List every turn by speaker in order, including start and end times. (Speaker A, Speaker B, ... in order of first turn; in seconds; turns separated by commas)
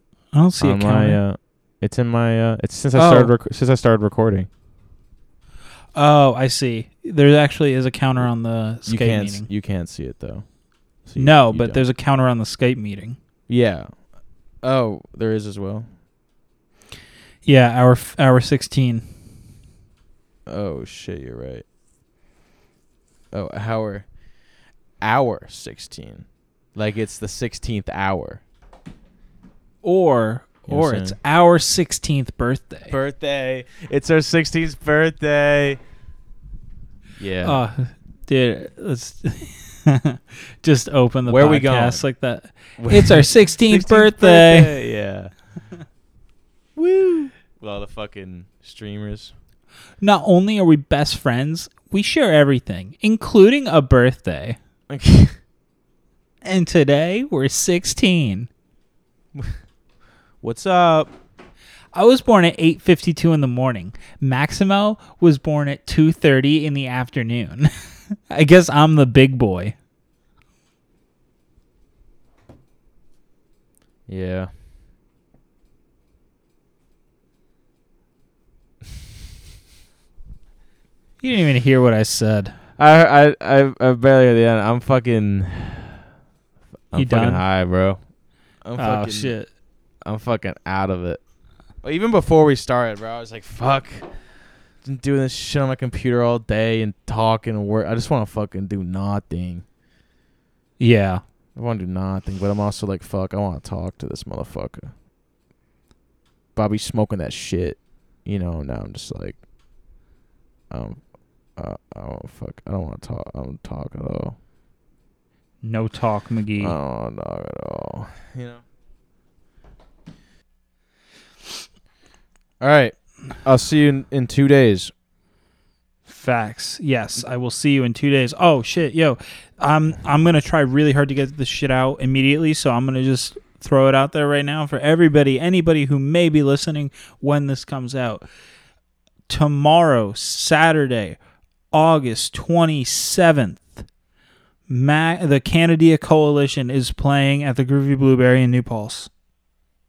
Speaker A: 0.3-1.2, Speaker B: 0.6-4.5, Speaker A: 2.9-3.3, Speaker A: 5.9-9.5, Speaker B: 8.8-10.4, Speaker B: 11.0-11.9, Speaker A: 11.2-13.2, Speaker B: 13.5-14.0, Speaker B: 14.6-15.9, Speaker A: 17.4-19.1, Speaker B: 20.5-21.6, Speaker B: 23.3-24.1, Speaker B: 25.0-28.4, Speaker A: 29.8-33.0, Speaker B: 30.7-31.2, Speaker B: 32.9-35.8, Speaker B: 37.2-37.6, Speaker A: 37.4-44.7, Speaker B: 41.2-42.0, Speaker B: 42.8-45.4, Speaker B: 46.8-49.3, Speaker A: 50.0-54.6, Speaker B: 54.9-55.4, Speaker A: 56.4-58.5, Speaker B: 60.4-61.1, Speaker A: 61.9-67.7, Speaker A: 68.3-69.7, Speaker B: 74.1-74.5, Speaker A: 81.2-82.6, Speaker B: 82.8-86.0, Speaker B: 86.9-88.0, Speaker A: 86.9-87.4, Speaker B: 88.6-89.4, Speaker A: 88.8-89.5, Speaker B: 90.0-91.2, Speaker B: 91.8-94.1, Speaker B: 94.8-99.6, Speaker A: 100.8-101.2, Speaker B: 101.5-104.9, Speaker B: 106.5-109.4, Speaker B: 110.7-111.0, Speaker B: 111.5-114.3, Speaker A: 115.6-116.8, Speaker B: 116.6-118.6, Speaker B: 122.6-124.9, Speaker A: 126.1-138.2, Speaker A: 139.3-141.2, Speaker A: 141.7-143.8, Speaker A: 144.7-149.1